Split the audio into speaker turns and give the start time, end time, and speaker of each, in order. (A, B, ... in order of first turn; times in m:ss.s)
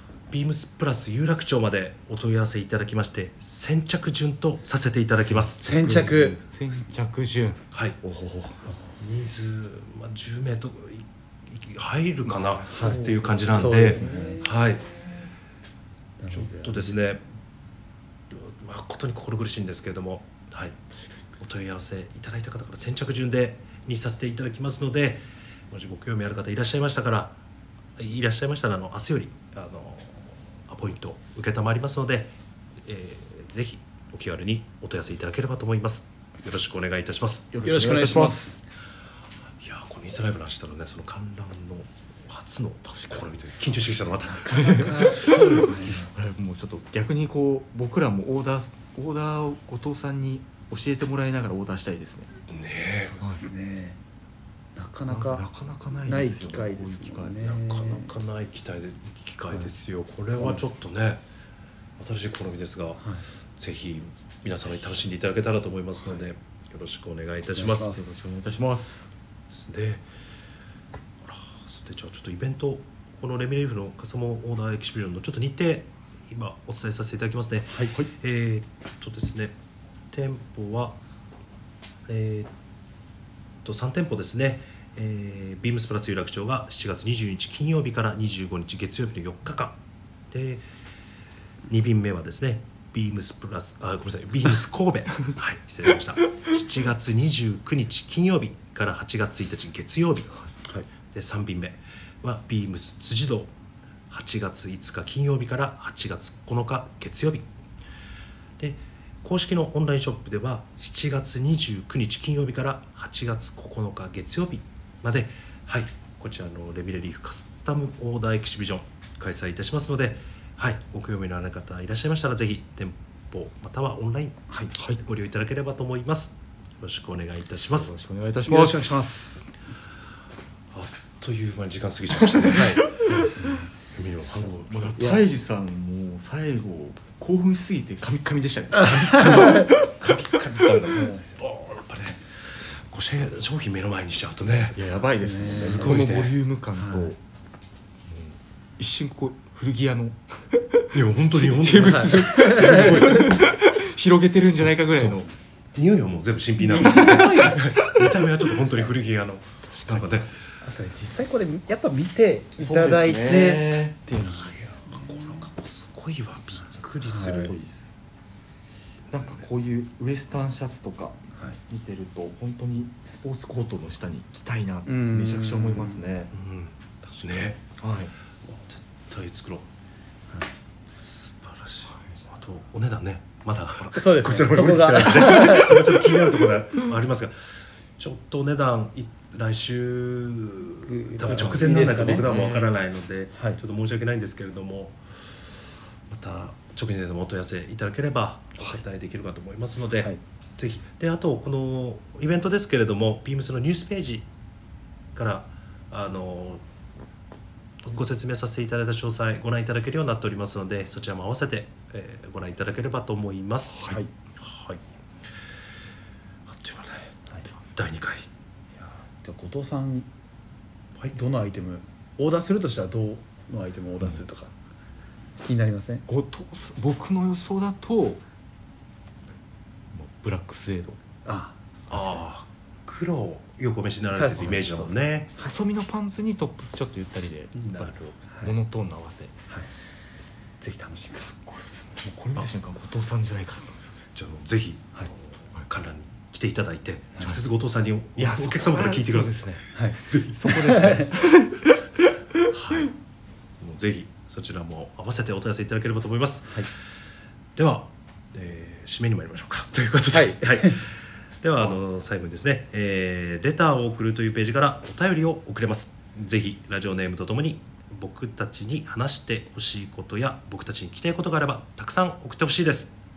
0:00.3-0:05.6 A
0:05.2-0:08.7 B
0:05.6-0:06.4 C
0:07.7-0:08.0 A
0:09.0-0:14.8 A
0:12.2-0:14.4 B
0:12.7-0:14.5 C
0:16.2-0:16.9 C
0:16.3-0:17.2 A
0:18.3-0:20.8 A
0:21.4-0:27.4 A
0:28.0-0:37.5 A
0:37.5-0:38.5 B
0:37.6-0:38.6 C
0:39.6-0:46.0 A
0:42.9-0:52.3 B
0:44.6-0:46.0 C
0:52.5-0:53.2 A
0:53.2-0:54.0 C
0:53.2-0:53.5 B
0:54.8-0:55.4 C
0:55.1-0:57.4 B
0:56.0-0:58.1 C
0:57.4-1:01.2 A
1:02.0-1:03.0 A
1:03.6-1:07.9 A
1:07.6-1:08.2 C
1:07.6-1:09.1 B
1:09.5-1:10.0 A
1:11.2-1:19.6 A
1:20.1-1:21.0 A
1:22.1-1:22.5 A
1:23.6-1:29.8 A
1:30.3-1:30.6 A
1:31.7-1:40.4 A
1:41.1-1:43.5 A
1:44.1-1:47.5 A
1:48.6-2:04.4 A
2:04.7-2:05.0 B
2:04.9-2:07.9 A
2:07.7-2:09.2 B
2:08.4-2:09.4 C
2:10.7-2:12.9 A
2:12.3-2:13.2 B
2:12.5-2:13.7 C
2:13.9-2:15.1 A
2:14.3-2:21.2 B
2:15.0-2:15.2 C
2:18.8-2:19.7 C
2:19.2-2:26.4 A
2:20.9-2:21.2 C
2:24.7-2:27.2 B
2:25.2-2:26.1 C
2:26.8-2:27.1 C
2:28.1-2:35.3 B
2:30.9-2:32.9 A
2:31.8-2:33.4 C
2:35.0-2:35.2 A
2:35.7-2:40.4 A
2:36.6-2:37.7 C
2:37.5-2:38.2 B
2:40.6-2:45.5 C
2:42.6-2:44.4 B
2:44.2-2:47.5 A
2:47.0-2:47.5 C
2:47.2-2:48.0 B
2:49.1-2:56.3 B
2:49.2-2:49.4 A
2:54.8-2:56.0 C
2:56.3-2:57.6 A
2:57.8-2:58.1 B
2:58.5-2:59.7 A
3:01.0-3:07.3 A
3:03.9-3:06.1 C
3:04.7-3:05.6 B
3:08.0-3:15.0 A
3:10.8-3:12.5 C
3:11.6-3:12.7 B
3:13.3-3:13.6 C
3:16.1-3:24.3 A
3:25.1-3:26.6 A
3:27.8-3:34.8 A
3:33.7-3:34.0 B
3:36.5-3:37.1 A
3:37.7-3:38.3 A
3:38.8-3:40.1 C
3:41.1-3:44.5 C
3:45.4-3:46.0 C
3:46.1-3:48.2 B
3:49.9-3:51.0 B
3:51.2-3:51.5 C
3:51.9-3:55.3 A
3:51.9-3:52.2 B
3:54.1-3:55.0 C
3:55.4-3:59.4 B
3:57.6-3:57.9 A
4:00.6-4:01.3 C
4:01.3-4:04.0 B
4:04.1-4:10.4 A
4:08.2-4:11.8 B
4:09.7-4:11.1 C
4:12.5-4:12.9 B
4:13.6-4:16.7 A
4:17.6-4:32.9 A
4:20.1-4:20.8 C